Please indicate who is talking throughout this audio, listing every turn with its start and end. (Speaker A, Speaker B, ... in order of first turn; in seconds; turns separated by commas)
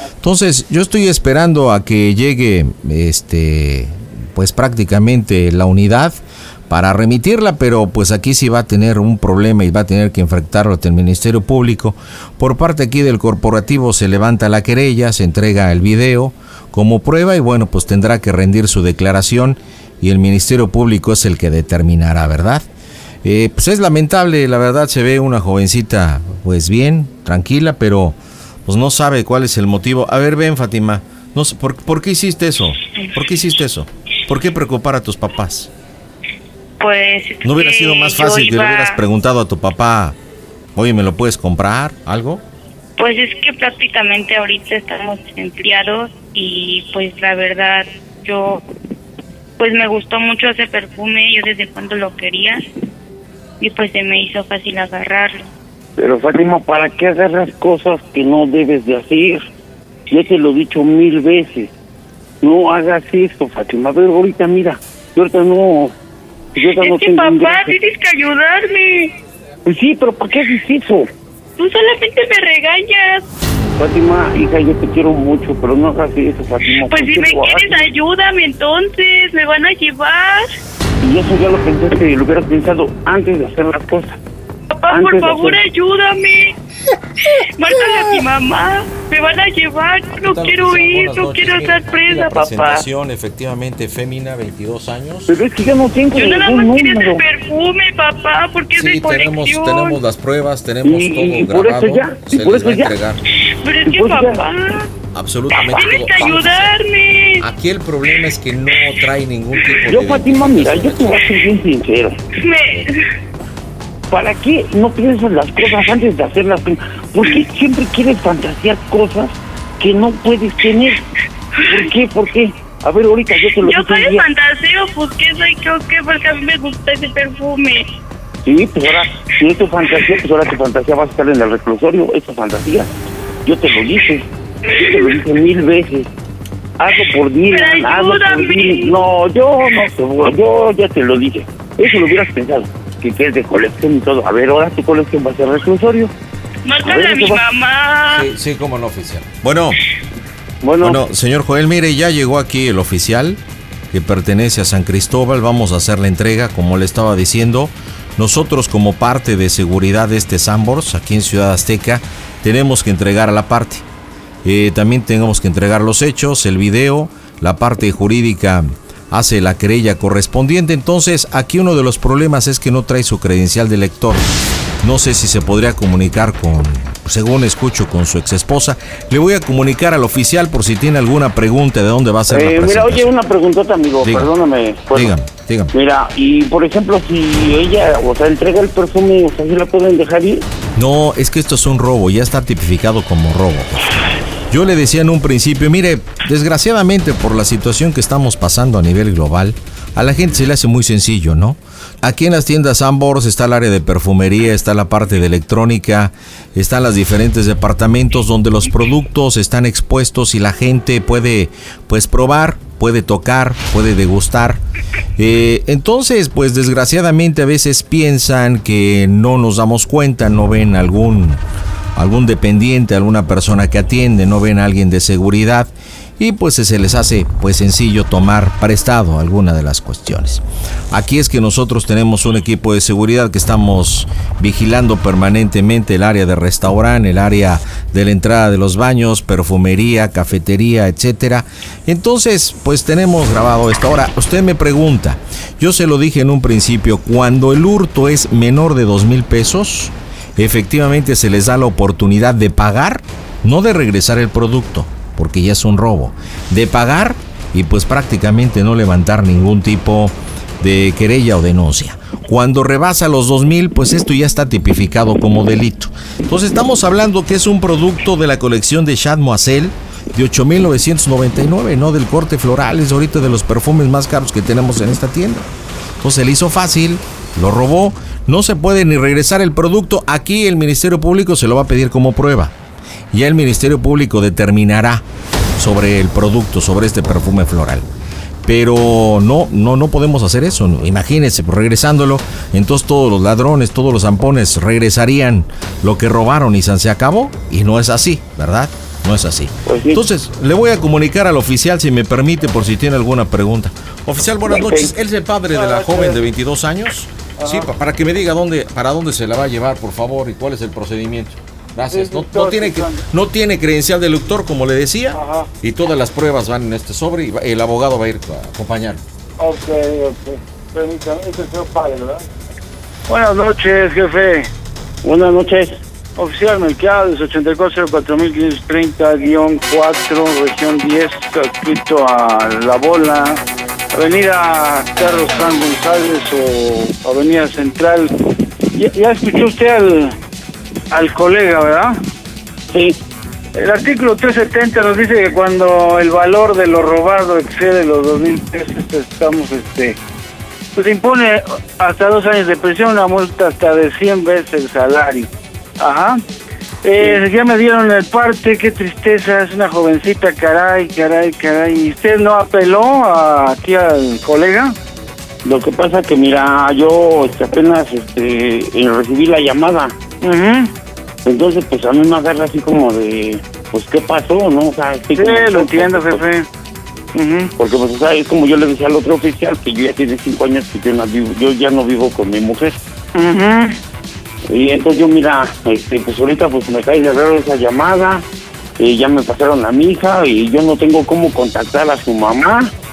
Speaker A: 0.2-6.2, Speaker A: 6.7-22.6, Speaker A: 23.2-35.7, Speaker B: 36.8-39.0, Speaker A: 37.4-40.1, Speaker A: 40.8-42.4, Speaker B: 43.0-48.6, Speaker B: 49.6-52.6, Speaker B: 53.6-55.5, Speaker C: 56.0-59.4, Speaker C: 60.1-61.7, Speaker C: 62.4-65.9, Speaker C: 66.5-67.7, Speaker B: 66.6-69.1, Speaker C: 69.6-71.0, Speaker B: 71.6-73.2, Speaker C: 73.8-77.9, Speaker B: 76.8-80.5, Speaker C: 81.0-84.2, Speaker B: 84.7-86.5, Speaker C: 84.9-85.6, Speaker B: 87.3-92.8, Speaker A: 90.2-95.3, Speaker C: 95.3-97.2, Speaker B: 96.1-100.0, Speaker A: 98.7-103.2, Speaker C: 100.8-102.9, Speaker B: 103.6-104.9, Speaker C: 103.8-104.4, Speaker A: 105.1-106.7, Speaker B: 105.7-107.4, Speaker A: 107.4-111.3, Speaker C: 109.8-112.2, Speaker B: 112.4-112.9, Speaker C: 114.1-121.0, Speaker C: 121.6-124.2, Speaker B: 123.5-127.9, Speaker C: 128.4-132.9, Speaker C: 133.4-136.1, Speaker B: 134.7-135.2, Speaker C: 136.8-146.1, Speaker B: 137.5-139.0, Speaker B: 146.6-148.3, Speaker C: 146.8-147.4, Speaker A: 148.1-149.8, Speaker C: 150.6-151.0, Speaker A: 150.8-153.4, Speaker A: 153.9-163.8, Speaker A: 164.4-174.2, Speaker A: 174.8-183.0, Speaker C: 182.3-185.1, Speaker A: 184.0-184.3, Speaker A: 184.9-185.7, Speaker C: 185.7-190.4, Speaker A: 190.8-214.6, Speaker A: 215.2-221.4, Speaker A: 221.9-275.5, Speaker A: 276.0-282.5, Speaker A: 283.1-285.0, Speaker A: 285.6-287.8, Speaker A: 288.4-319.0, Speaker C: 299.7-300.0, Speaker C: 304.4-304.9, Speaker D: 305.5-306.2, Speaker D: 307.4-307.7, Speaker D: 311.9-313.0, Speaker D: 315.1-315.5, Speaker D: 319.4-322.2, Speaker D: 323.1-324.5, Speaker C: 325.0-325.8, Speaker D: 326.2-333.4, Speaker D: 333.9-338.1, Speaker D: 338.7-340.1, Speaker D: 340.9-341.9, Speaker C: 342.7-343.0, Speaker D: 343.5-350.0, Speaker D: 350.7-356.2, Speaker D: 356.8-364.7, Speaker C: 365.4-370.1, Speaker D: 370.2-370.7, Speaker C: 371.2-376.2, Speaker D: 375.1-376.5, Speaker D: 377.1-377.5, Speaker C: 377.6-382.8, Speaker D: 383.1-383.7, Speaker C: 384.5-388.2, Speaker C: 388.8-392.7